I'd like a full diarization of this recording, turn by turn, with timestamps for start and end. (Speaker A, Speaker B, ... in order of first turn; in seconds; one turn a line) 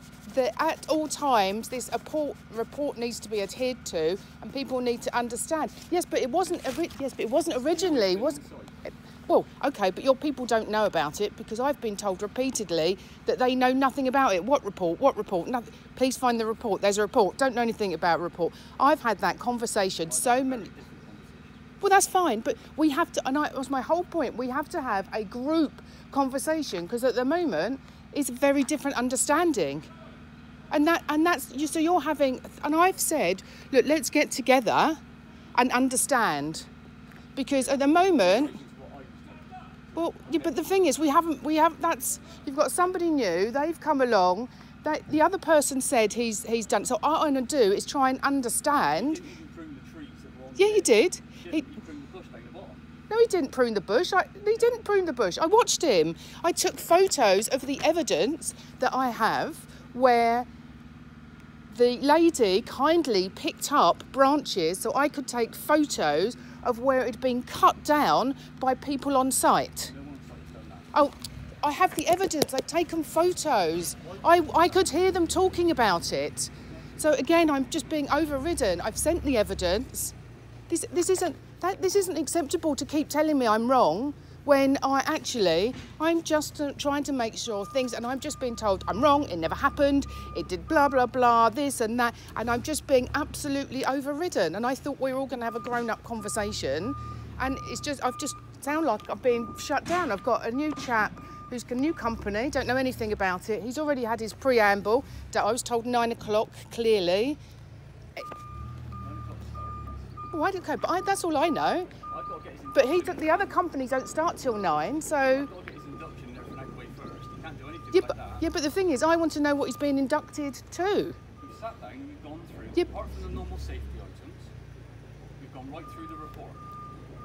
Speaker A: 0.2-20.7
Speaker B: 7.5-8.7
Speaker B: 20.0-21.7
Speaker A: 21.8-29.9
Speaker A: 30.7-35.0
Speaker A: 35.5-36.7
Speaker A: 37.4-38.6
Speaker B: 37.6-40.8
Speaker A: 40.0-49.2
Speaker B: 48.7-52.8
Speaker A: 50.6-51.6
Speaker A: 53.1-60.5
Speaker A: 61.7-69.9
Speaker B: 69.8-71.0
Speaker A: 70.9-80.2
Speaker B: 74.0-74.9
Speaker A: 80.7-107.4
Speaker B: 109.0-110.1
Speaker A: 110.3-111.9
Speaker B: 112.1-113.7
Speaker A: 112.7-115.5
Speaker B: 115.2-118.5
Speaker A: 117.9-121.2
Speaker B: 121.4-124.5
Speaker B: 125.4-126.6